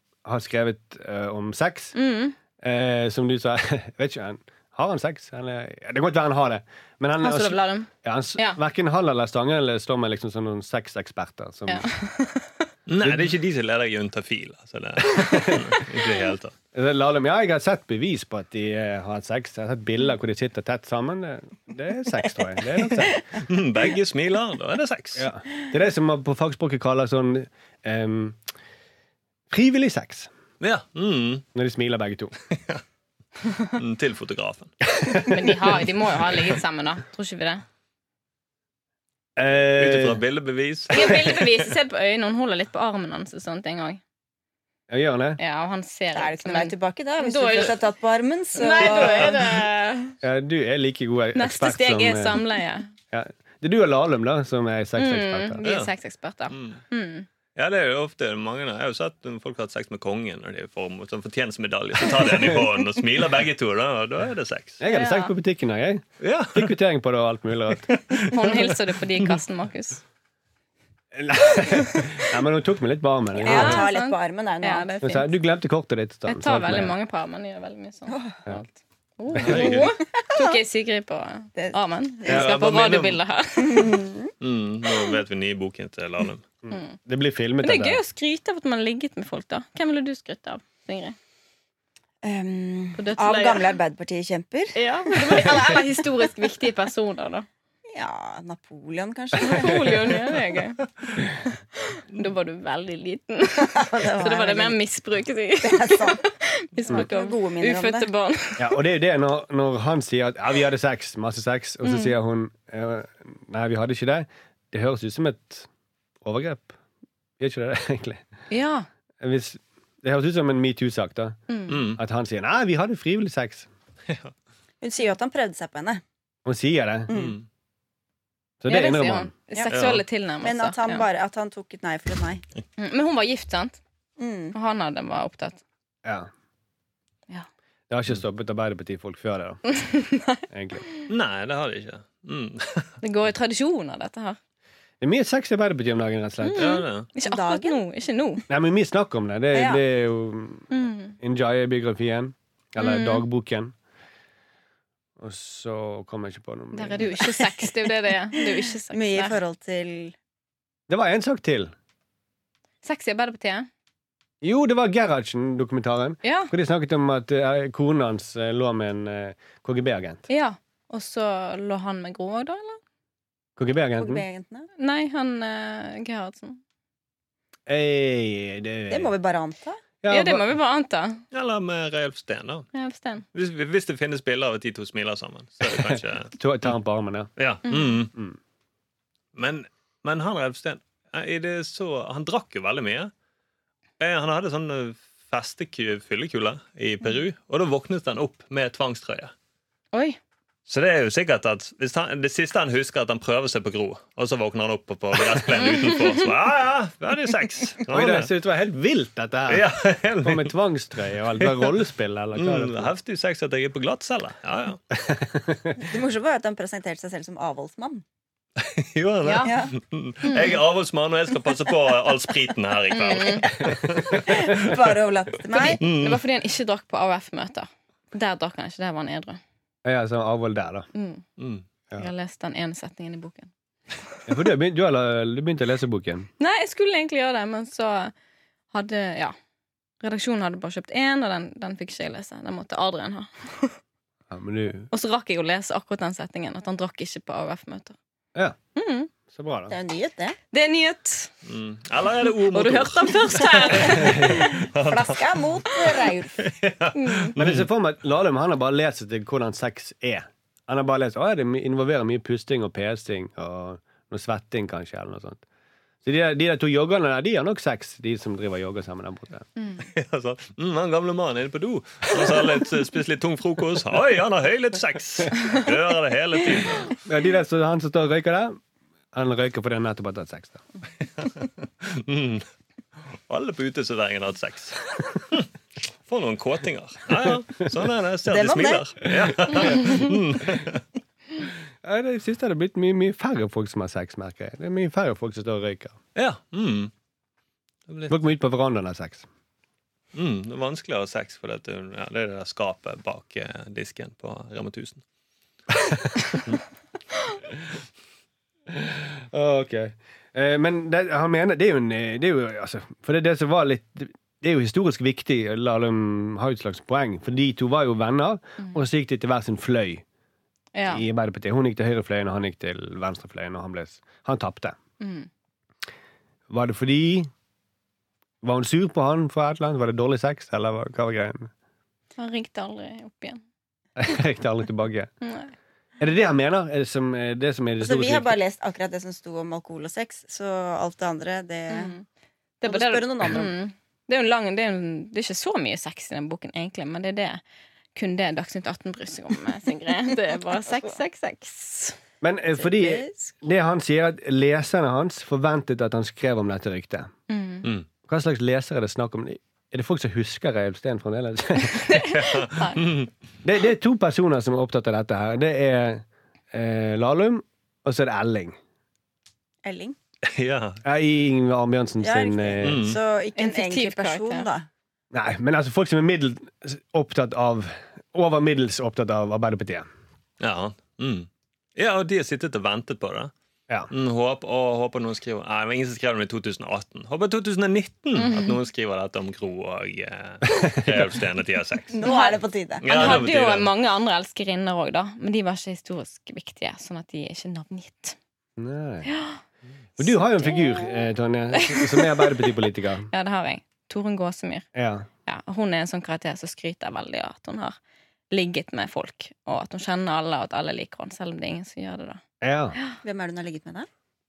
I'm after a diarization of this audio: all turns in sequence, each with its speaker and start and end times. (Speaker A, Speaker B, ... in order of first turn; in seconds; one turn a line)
Speaker A: 0.2-1.9
Speaker B: 1.9-2.4
Speaker A: 2.6-11.9
Speaker B: 7.2-8.6
Speaker B: 11.7-12.7
Speaker C: 12.9-16.5
Speaker A: 13.0-13.3
Speaker A: 15.2-15.6
Speaker A: 16.7-23.2
Speaker C: 23.4-25.3
Speaker A: 25.1-28.4
Speaker A: 29.5-30.3
Speaker C: 30.6-31.4
Speaker A: 31.5-32.3
Speaker C: 32.5-32.8
Speaker C: 33.6-34.7
Speaker A: 35.0-35.5
Speaker B: 35.2-37.6
Speaker A: 39.4-40.2
Speaker C: 39.7-41.5
Speaker B: 40.9-44.0
Speaker A: 44.9-45.4
Speaker B: 45.4-47.8
Speaker D: 46.1-49.4
Speaker B: 48.5-50.1
Speaker A: 50.2-52.4
Speaker B: 51.3-52.9
Speaker A: 53.1-55.6
Speaker B: 55.0-57.3
Speaker C: 55.6-55.9
Speaker C: 56.5-56.8
Speaker C: 57.5-64.8
Speaker A: 64.8-67.9
Speaker B: 64.9-65.3
Speaker C: 66.2-66.7
Speaker C: 67.8-68.7
Speaker B: 68.2-70.0
Speaker A: 71.1-73.9
Speaker B: 71.7-72.1
Speaker B: 73.3-75.3
Speaker D: 73.4-74.9
Speaker A: 75.0-76.9
Speaker B: 76.3-84.0
Speaker D: 78.1-78.4
Speaker A: 79.3-79.7
Speaker C: 79.3-79.9
Speaker D: 81.5-82.5
Speaker C: 82.2-83.2
Speaker D: 83.6-84.3
Speaker C: 84.4-86.4
Speaker A: 86.6-88.0
Speaker B: 86.7-87.0
Speaker B: 87.6-91.2
Speaker D: 92.2-95.8
Speaker B: 93.0-93.7
Speaker B: 94.7-97.5
Speaker D: 97.9-100.2
Speaker B: 99.4-100.8
Speaker B: 101.9-108.7
Speaker D: 103.6-104.8
Speaker D: 105.6-106.2
Speaker D: 106.8-108.1
Speaker A: 108.6-115.7
Speaker B: 111.8-112.1
Speaker A: 116.2-116.7
Speaker A: 117.4-118.2
Speaker B: 118.5-118.9
Speaker A: 119.2-123.7
Speaker B: 121.5-121.8
Speaker C: 121.7-122.0
Speaker D: 124.8-126.0
Speaker A: 126.4-127.1
Speaker D: 127.1-127.4
Speaker C: 127.1-127.4
Speaker A: 128.6-129.3
Speaker B: 128.7-131.0
Speaker C: 129.7-130.0
Speaker D: 130.4-132.4
Speaker B: 132.8-133.8
Speaker D: 134.2-134.6
Speaker B: 134.5-135.6
Speaker A: 137.9-139.6
Speaker B: 139.8-141.0
Speaker A: 140.5-140.8
Speaker C: 141.1-142.9
Speaker B: 143.0-144.4
Speaker A: 145.0-146.8
Speaker B: 146.4-148.4
Speaker C: 146.6-147.1
Speaker D: 147.2-147.8
Speaker A: 148.5-150.7
Speaker D: 149.5-149.8
Speaker B: 150.7-151.1
Speaker A: 151.2-153.7
Speaker B: 152.8-153.2
Speaker A: 155.2-157.4
Speaker B: 156.7-159.4
Speaker D: 158.9-160.1
Speaker A: 160.9-161.7
Speaker B: 162.8-163.7
Speaker A: 164.4-170.2
Speaker B: 166.2-166.5
Speaker B: 170.3-172.8
Speaker A: 173.6-174.2
Speaker D: 174.0-174.7
Speaker B: 174.8-176.6
Speaker A: 177.7-179.1
Speaker D: 178.9-179.8
Speaker A: 180.0-180.5
Speaker B: 180.1-181.2
Speaker C: 181.3-182.7
Speaker B: 182.7-183.2
Speaker C: 183.3-186.7
Speaker A: 185.7-187.3
Speaker C: 187.4-188.1
Speaker B: 187.7-188.0
Speaker C: 189.3-193.1
Speaker C: 194.0-199.3
Speaker B: 199.9-200.2
Speaker C: 200.7-208.3
Speaker A: 207.9-209.7
Speaker C: 209.5-210.5
Speaker A: 210.2-212.9
Speaker C: 211.4-211.8
Speaker C: 212.3-214.8
Speaker A: 214.9-215.7
Speaker D: 215.8-218.0
Speaker C: 218.6-224.9
Speaker B: 219.2-219.5
Speaker D: 219.4-219.7
Speaker B: 220.2-220.6
Speaker B: 222.9-223.5
Speaker D: 224.1-225.8
Speaker B: 225.5-229.4
Speaker C: 225.8-226.2
Speaker A: 229.8-230.9
Speaker B: 230.9-231.2
Speaker C: 231.4-231.6
Speaker B: 231.9-233.5
Speaker A: 234.3-236.3
Speaker B: 236.4-238.1
Speaker B: 238.7-239.3
Speaker B: 240.0-243.8
Speaker A: 244.3-244.9
Speaker B: 244.9-247.9
Speaker B: 248.7-249.1
Speaker A: 249.3-249.7
Speaker D: 249.7-250.4
Speaker B: 250.5-251.3
Speaker C: 251.5-257.6
Speaker B: 252.5-254.5
Speaker A: 253.9-254.5
Speaker D: 254.8-256.4
Speaker B: 256.9-257.3
Speaker A: 257.4-265.4
Speaker A: 266.0-269.4
Speaker C: 269.8-277.0
Speaker A: 272.2-272.5
Speaker A: 277.0-278.6
Speaker A: 279.1-280.6
Speaker C: 281.2-282.5
Speaker C: 283.3-285.5
Speaker C: 286.1-290.8
Speaker D: 288.3-288.8
Speaker A: 289.0-290.6
Speaker A: 291.8-296.0
Speaker C: 296.1-296.9
Speaker C: 297.9-298.1
Speaker A: 298.1-299.3
Speaker C: 300.1-305.0
Speaker A: 305.7-306.4
Speaker A: 308.7-320.0
Speaker B: 320.7-321.0
Speaker A: 320.9-324.8
Speaker B: 325.0-325.3
Speaker A: 326.5-327.3
Speaker A: 328.4-331.5
Speaker B: 332.2-333.4
Speaker A: 334.0-335.1
Speaker B: 335.2-335.5
Speaker A: 336.0-338.4
Speaker D: 337.8-341.9
Speaker B: 341.7-342.0
Speaker B: 342.6-347.4
Speaker D: 342.6-343.6
Speaker B: 347.9-351.9
Speaker A: 352.2-357.1
Speaker D: 352.6-353.3
Speaker B: 357.3-357.7
Speaker A: 358.1-362.1
Speaker B: 361.6-362.8
Speaker C: 362.1-363.1
Speaker A: 363.4-368.6
Speaker D: 369.6-369.9
Speaker C: 370.2-370.8
Speaker A: 370.8-372.9
Speaker D: 372.0-374.7
Speaker C: 372.6-373.0
Speaker B: 373.4-374.5
Speaker A: 375.1-379.9
Speaker C: 380.4-383.3
Speaker C: 383.9-392.0
Speaker B: 388.1-388.6
Speaker A: 390.5-391.0
Speaker D: 391.9-393.2
Speaker B: 392.0-398.1
Speaker C: 392.8-393.7
Speaker A: 398.6-399.1
Speaker B: 399.0-399.4
Speaker A: 400.0-403.1
Speaker B: 400.0-402.5
Speaker B: 403.1-404.6
Speaker A: 404.7-405.1
Speaker B: 405.2-407.7
Speaker B: 408.3-412.2
Speaker A: 412.4-412.8
Speaker D: 413.0-413.9